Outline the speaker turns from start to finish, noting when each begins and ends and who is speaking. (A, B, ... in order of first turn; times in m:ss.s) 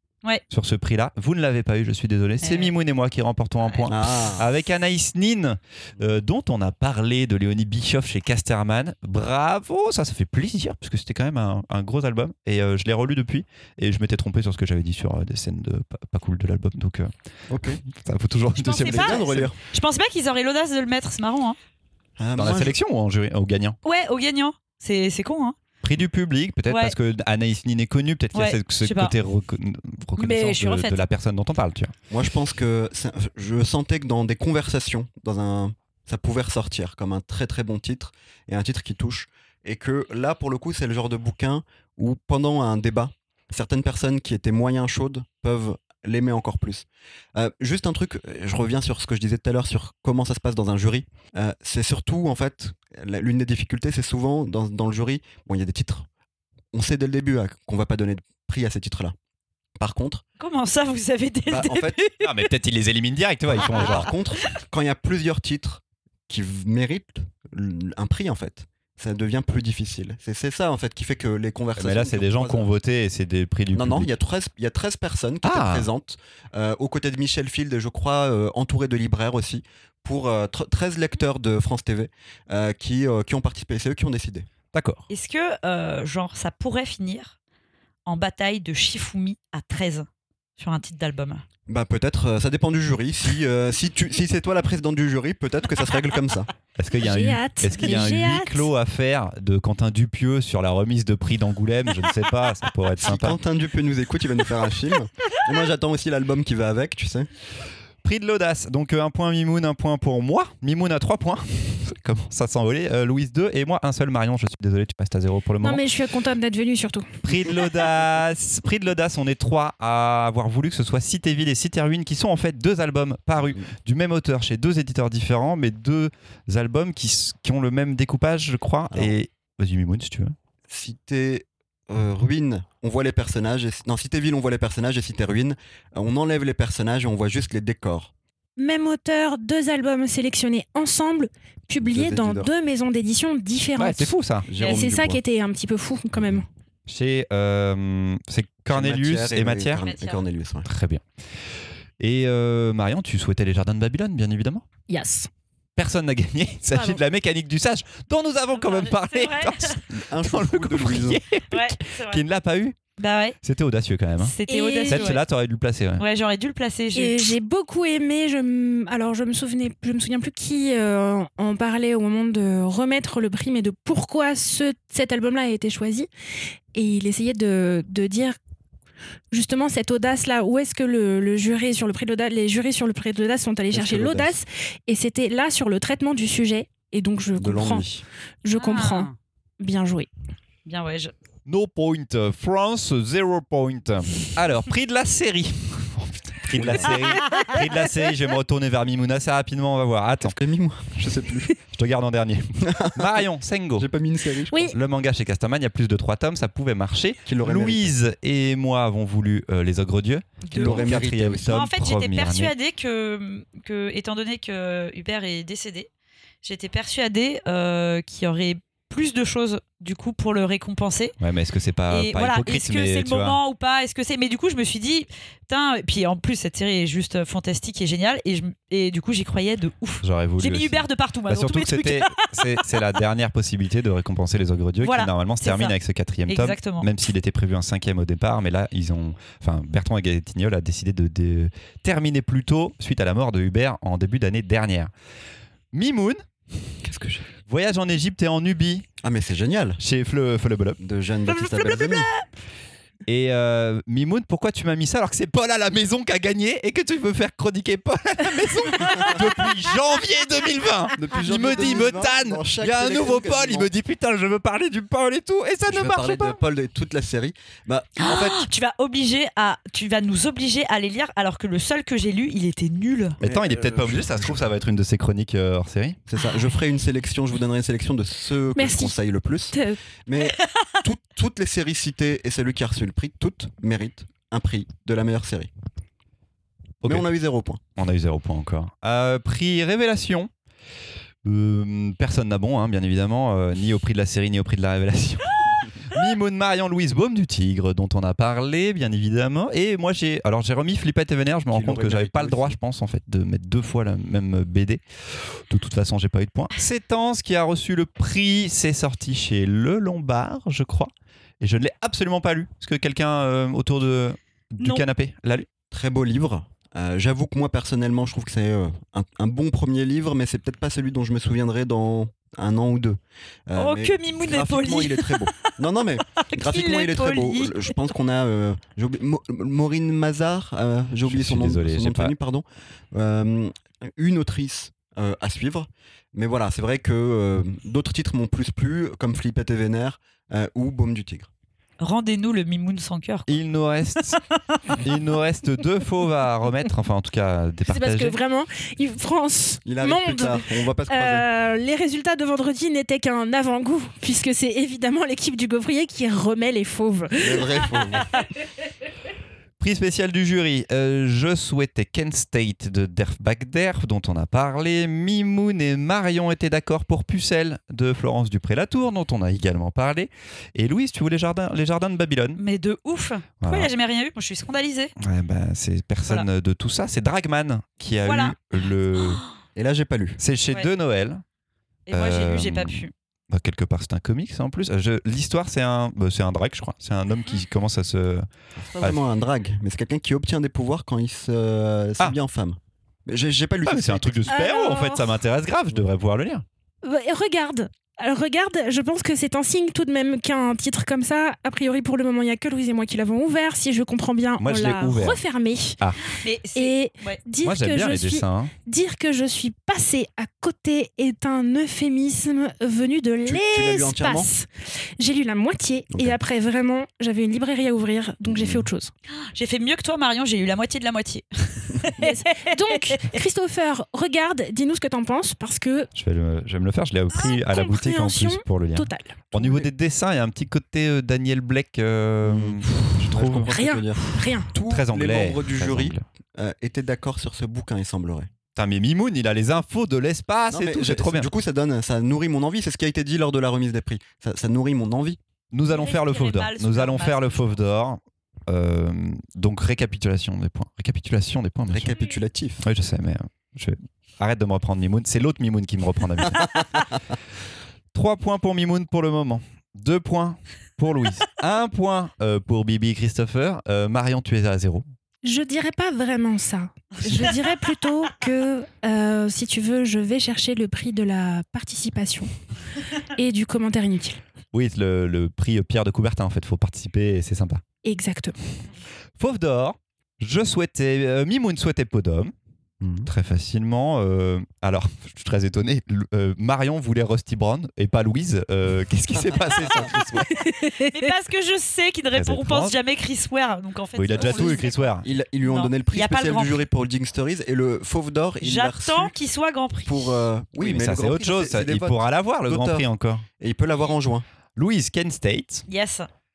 0:00.5-0:17.1 A
0:02.4-0:02.7 B
0:03.6-0:03.9 B
0:03.9-0:04.5 C
0:17.5-0:17.8 C
0:17.8-0:19.5 A
0:18.6-0:21.6 B
0:18.7-0:19.6 C
0:22.2-0:22.7 C
0:22.4-0:23.8 A
0:23.8-0:25.6 B
0:25.8-0:31.9 A
0:26.7-0:26.9 B
0:28.3-0:29.1 B
0:30.2-0:31.0 B
0:32.1-0:56.1 C
0:56.7-0:59.1 C
0:59.8-1:00.2 C
1:00.4-1:02.5 B
1:01.5-1:02.0 C
1:02.2-1:04.1 A
1:03.5-1:12.7 C
1:03.8-1:04.0 B
1:11.8-1:14.1 A
1:13.7-1:24.5 C
1:15.4-1:15.9 A
1:24.7-1:25.1 A
1:25.1-1:27.3 B
1:28.0-1:30.1 B
1:30.6-1:31.4 B
1:31.7-1:36.5 C
1:36.8-1:43.4 A
1:37.0-1:38.7 D
1:43.0-1:47.3 C
1:48.0-1:55.8 A
1:55.6-1:57.1 D
1:57.2-2:10.3 A
2:10.7-2:18.1 C
2:18.6-2:26.4 D
2:21.8-2:22.5 C
2:23.8-2:24.5 A
2:24.5-2:25.2 C
2:24.6-2:24.9 B
2:26.9-2:29.8 A
2:28.7-2:30.7 C
2:29.8-2:30.2 B
2:30.6-2:31.0 A
2:32.0-2:34.6 A
2:34.9-2:35.3 D
2:35.8-2:42.8 A
2:36.7-2:37.0 B
2:38.5-2:39.8 B
2:39.9-2:41.2 C
2:41.5-2:42.2 B
2:43.0-2:43.4 B
2:43.4-2:44.3 A
2:44.2-2:45.2 B
2:44.5-2:45.2 D
2:44.9-2:46.0 A
2:46.0-2:47.3 B
2:46.9-2:56.1 D
2:56.7-2:58.4 D
2:59.3-3:07.9 D
3:03.7-3:04.4 C
3:07.4-3:08.0 C
3:08.4-3:10.1 D
3:08.5-3:09.1 B
3:10.6-3:11.1 B
3:11.4-3:20.4 A
3:16.5-3:17.0 C
3:20.2-3:21.6 C
3:21.7-3:23.9 A
3:22.6-3:23.2 C
3:23.8-3:24.7 C
3:24.5-3:24.8 D
3:24.7-3:32.5 A
3:27.2-3:27.9 C
3:30.4-3:35.9 B
3:30.5-3:31.6 C
3:36.4-3:41.1 B
3:41.2-3:43.4 A
3:41.9-3:52.8 B
3:50.0-4:04.9 A
3:54.8-3:55.7 B
3:56.3-3:56.9 B
4:05.7-4:06.2 A
4:06.8-4:07.3 C
4:07.4-4:08.9 A
4:09.0-4:09.8 C
4:09.8-4:10.8 A
4:10.8-4:12.1 C
4:11.3-4:12.1 B
4:13.1-4:26.4 A
4:21.0-4:23.7 C
4:25.6-4:28.5 C
4:28.0-4:33.2 B
4:33.2-4:34.4 C
4:33.2-4:36.0 A
4:36.1-4:45.5 C
4:38.5-4:38.9 D
4:39.5-4:39.8 D
4:40.2-4:40.6 B
4:46.8-4:47.1 A
4:46.8-4:47.6 C
4:47.8-4:50.3 A
4:51.2-5:15.5 A
5:01.5-5:02.6 C
5:15.7-5:41.3 C
5:23.5-5:25.5 B
5:26.1-5:27.7 B
5:31.0-5:32.1 A
5:41.8-5:43.3 B
5:43.3-5:44.2 A
5:44.1-5:44.8 B
5:44.8-5:48.2 A
5:47.6-5:57.7 D
5:49.6-5:51.2 C
5:57.2-5:58.1 C
5:59.6-6:12.4 A
6:12.4-6:14.9 B
6:13.4-6:13.7 A
6:15.0-6:19.2 A
6:18.0-6:18.4 B
6:19.6-6:20.2 C
6:20.2-6:21.2 A
6:21.9-6:22.9 B
6:21.9-6:28.3 A
6:28.6-6:34.4 C
6:33.6-6:36.4 A
6:34.3-6:35.1 D
6:36.8-6:45.8 D
6:44.4-6:45.2 A
6:46.2-6:47.2 B
6:46.5-6:58.9 D
6:47.4-6:48.5 A
6:53.2-6:54.3 C
6:55.9-6:56.2 C
6:58.3-6:58.6 C
6:59.3-7:03.2 B
7:02.0-7:05.9 D
7:05.9-7:13.5 A
7:07.1-7:09.2 D
7:12.2-7:18.3 C
7:13.4-7:14.5 D
7:14.5-7:16.0 A
7:18.6-7:21.3 A
7:20.5-7:25.2 C
7:25.5-7:31.9 A
7:25.7-7:27.5 B
7:31.7-7:32.6 C
7:32.6-7:36.7 A
7:37.9-7:44.8 A
7:45.2-7:52.3 D
7:53.2-7:54.2 D
7:54.5-7:57.6 A
7:57.8-7:58.4 D
7:59.2-8:02.3 A
8:02.8-8:03.1 C
8:03.0-8:10.3 A
8:09.2-8:10.1 C
8:10.4-8:10.7 D
8:10.4-8:16.6 B
8:12.1-8:12.7 A
8:14.0-8:15.0 A
8:14.2-8:19.1 C
8:18.4-8:20.3 B
8:19.8-8:22.9 C
8:20.6-8:23.2 A
8:23.4-8:24.2 C
8:24.6-8:25.6 A
8:25.7-8:26.1 B